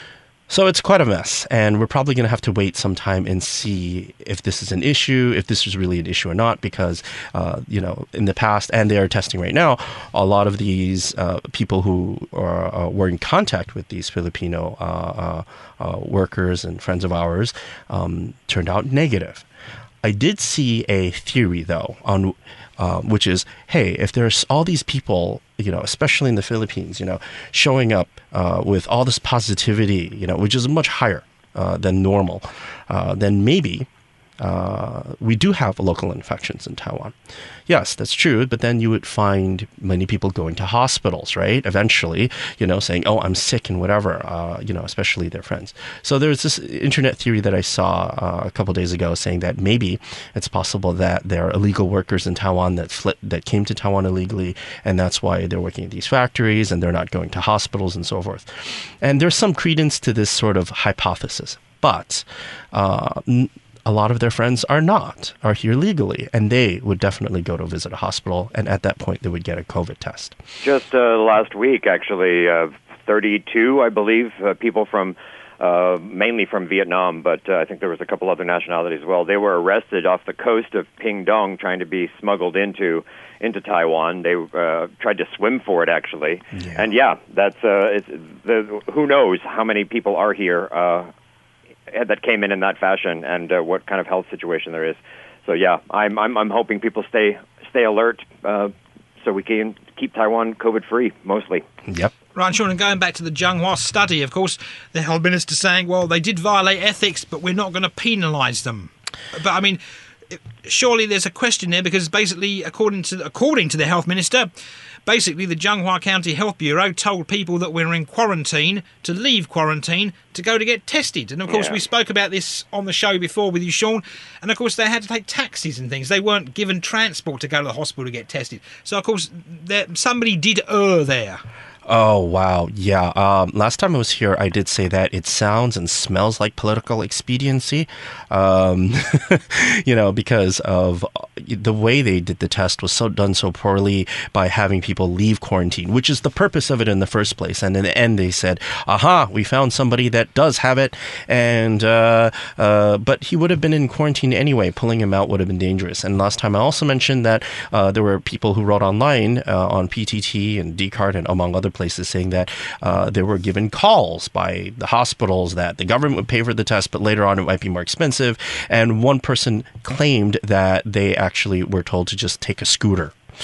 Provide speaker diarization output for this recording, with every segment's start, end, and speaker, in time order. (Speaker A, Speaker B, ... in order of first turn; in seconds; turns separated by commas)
Speaker A: 0.5-19.5, Speaker A: 20.0-33.9, Speaker A: 34.4-37.1, Speaker A: 37.7-70.4, Speaker B: 70.6-91.1, Speaker A: 86.5-86.8, Speaker B: 91.9-101.7, Speaker A: 101.9-102.1, Speaker C: 102.3-109.8, Speaker C: 110.3-114.5, Speaker C: 115.1-131.4, Speaker B: 121.5-121.8, Speaker A: 131.9-173.2